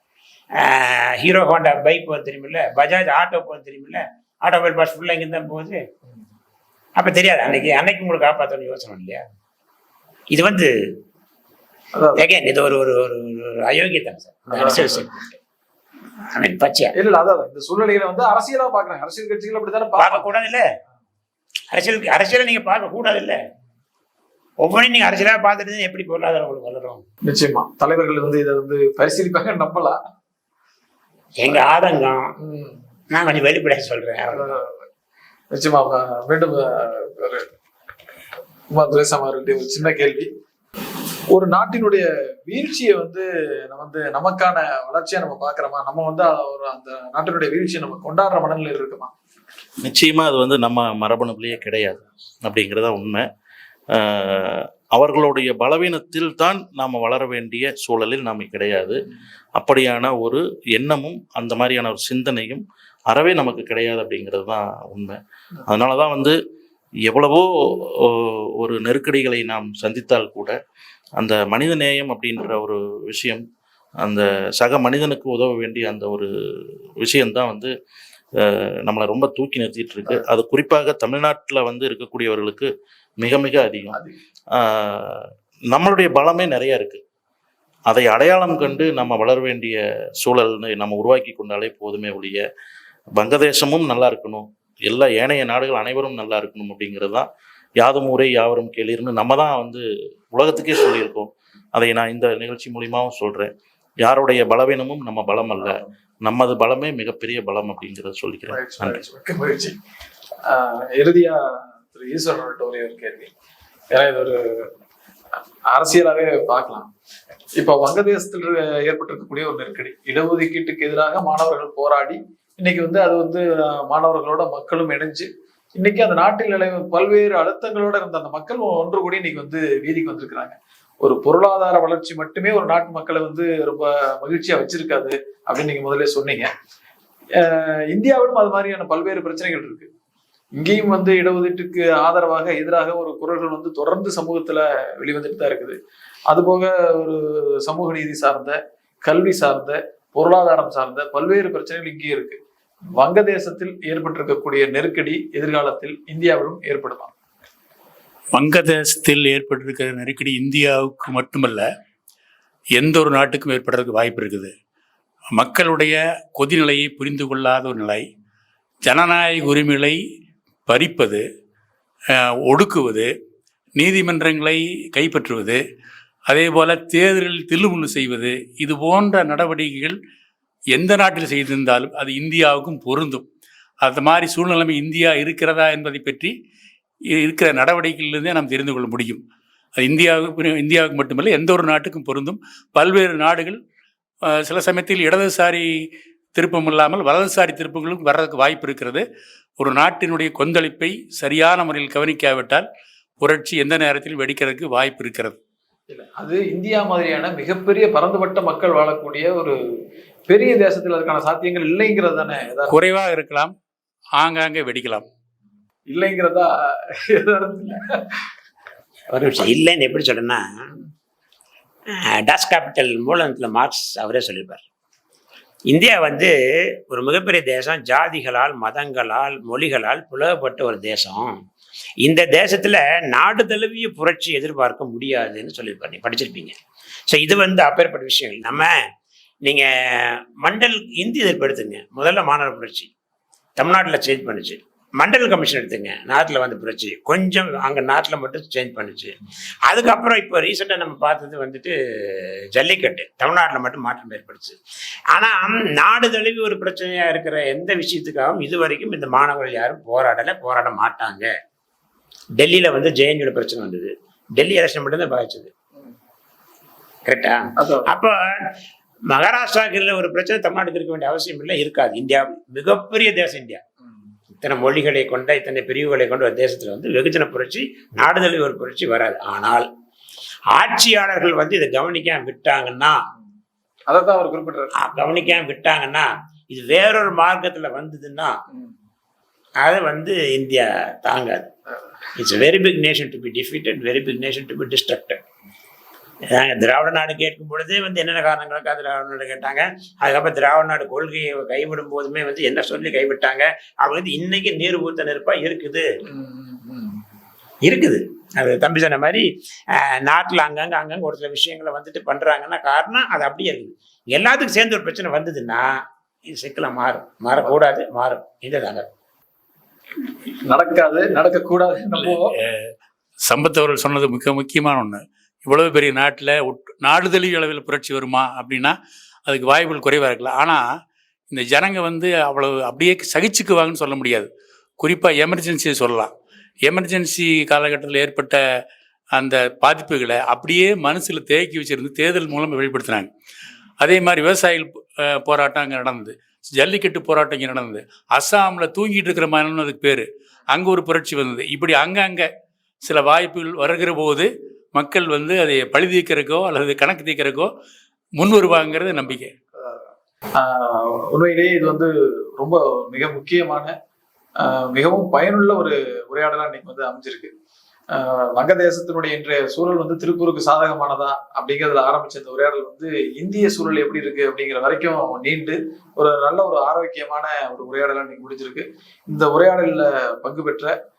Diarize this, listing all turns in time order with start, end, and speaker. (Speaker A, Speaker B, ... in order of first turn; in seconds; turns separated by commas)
Speaker A: 0.6-5.8, Speaker A: 7.0-9.2, Speaker A: 10.3-10.7, Speaker B: 11.9-12.2, Speaker A: 12.2-15.1, Speaker B: 14.5-15.1, Speaker A: 16.3-16.9, Speaker B: 16.9-20.3, Speaker A: 20.0-20.7, Speaker A: 21.7-23.4, Speaker A: 24.6-27.0, Speaker B: 27.2-30.0, Speaker A: 31.4-32.3, Speaker B: 32.4-32.8, Speaker A: 33.1-34.5, Speaker B: 34.3-34.8, Speaker B: 35.5-37.5, Speaker B: 38.7-40.3, Speaker B: 41.3-49.1, Speaker C: 49.8-53.3, Speaker C: 53.9-59.0, Speaker C: 59.5-66.3, Speaker C: 67.1-70.5, Speaker C: 71.2-73.4, Speaker C: 74.0-76.3, Speaker C: 77.0-77.7, Speaker C: 78.4-84.0, Speaker C: 84.5-87.0, Speaker C: 87.9-92.4, Speaker C: 93.2-97.3, Speaker C: 97.8-103.5, Speaker C: 104.0-109.0, Speaker B: 108.5-109.8, Speaker B: 110.4-113.3, Speaker B: 113.9-114.7, Speaker B: 115.7-116.9, Speaker B: 117.6-136.5, Speaker B: 137.4-139.9, Speaker B: 140.6-145.8, Speaker B: 146.3-152.4, Speaker B: 153.0-157.1, Speaker D: 158.3-161.7, Speaker D: 162.7-164.5, Speaker D: 165.3-168.1, Speaker D: 168.8-170.0, Speaker D: 170.7-171.2, Speaker D: 172.1-173.1, Speaker D: 173.8-175.6, Speaker D: 176.3-180.0, Speaker D: 180.7-183.2, Speaker D: 183.8-186.3, Speaker D: 187.1-189.2, Speaker D: 189.8-193.6, Speaker D: 194.2-199.0, Speaker D: 199.6-202.7, Speaker D: 203.2-205.4, Speaker B: 205.9-209.6, Speaker B: 210.3-212.8, Speaker D: 212.7-213.5, Speaker D: 214.2-215.0, Speaker B: 215.9-218.2, Speaker A: 219.1-220.7, Speaker A: 221.9-224.6, Speaker A: 225.7-226.3, Speaker A: 226.9-231.4, Speaker A: 232.0-236.6, Speaker A: 237.1-238.7, Speaker A: 239.4-242.9, Speaker A: 243.6-254.6, Speaker A: 255.1-261.3, Speaker A: 262.4-265.5, Speaker A: 267.1-268.5, Speaker B: 267.6-267.9, Speaker A: 269.1-273.6, Speaker A: 274.4-279.7, Speaker A: 280.5-283.0, Speaker B: 283.9-284.7, Speaker A: 284.8-288.4, Speaker A: 289.6-291.5, Speaker A: 292.1-295.2, Speaker A: 296.3-305.9, Speaker B: 306.1-307.0, Speaker A: 307.6-315.7, Speaker A: 316.3-318.9, Speaker B: 320.5-322.3, Speaker D: 322.0-322.7, Speaker D: 323.2-328.7, Speaker D: 329.3-330.6, Speaker D: 331.3-334.3, Speaker D: 334.8-336.1, Speaker D: 336.6-338.4, Speaker D: 339.1-343.1, Speaker D: 343.8-352.3, Speaker D: 352.8-357.5, Speaker D: 358.2-359.3, Speaker B: 360.3-363.7, Speaker B: 364.4-367.3, Speaker B: 367.9-380.8